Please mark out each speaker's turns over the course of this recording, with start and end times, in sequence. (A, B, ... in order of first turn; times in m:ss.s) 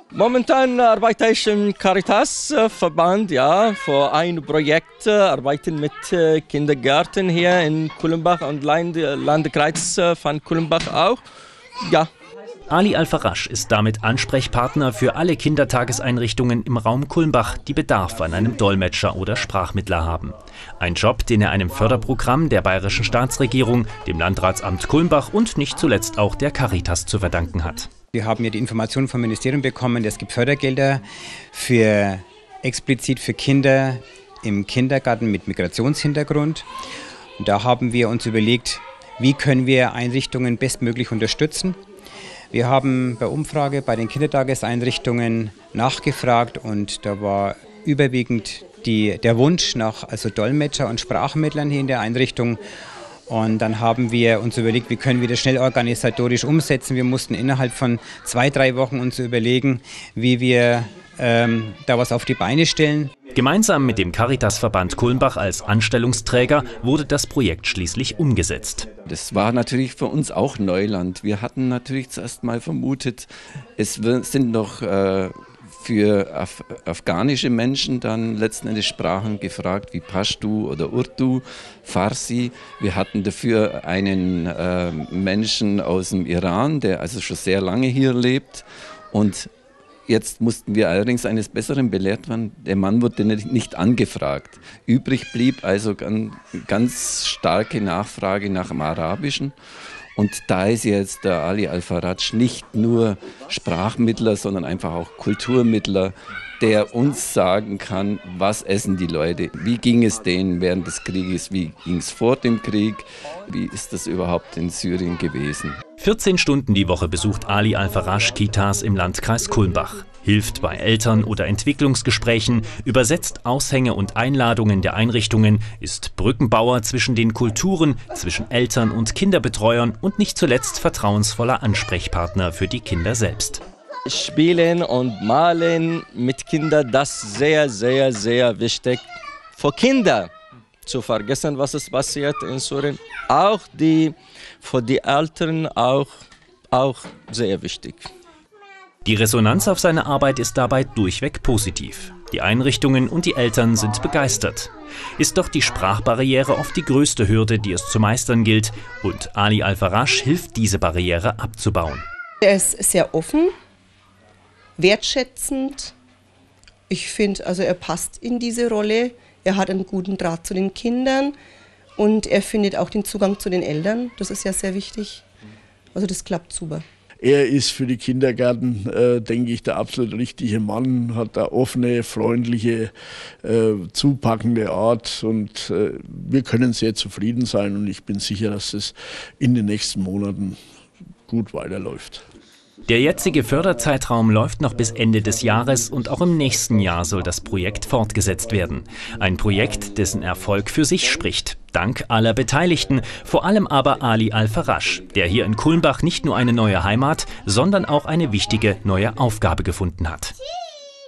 0:00.1-0:11.2 A
0:12.7-0:27.9 B
0:28.1-0:36.6 C
0:37.4-0:41.8 C
0:42.5-0:52.6 C
0:53.3-1:03.1 C
1:03.3-1:08.9 B
1:09.1-1:29.5 D
1:30.1-1:39.6 D
1:40.2-1:55.8 D
1:56.0-2:13.6 B
2:14.1-2:19.0 A
2:19.6-2:20.3 A
2:20.9-2:26.1 A
2:26.7-2:28.1 A
2:29.0-2:42.0 B
2:42.4-2:43.5 E
2:44.8-2:46.0 E
2:46.9-2:51.4 E
2:52.0-2:55.2 E
2:56.0-2:56.8 E
2:57.2-3:02.9 F
3:03.4-3:10.6 F
3:11.3-3:12.2 F
3:12.9-3:30.4 B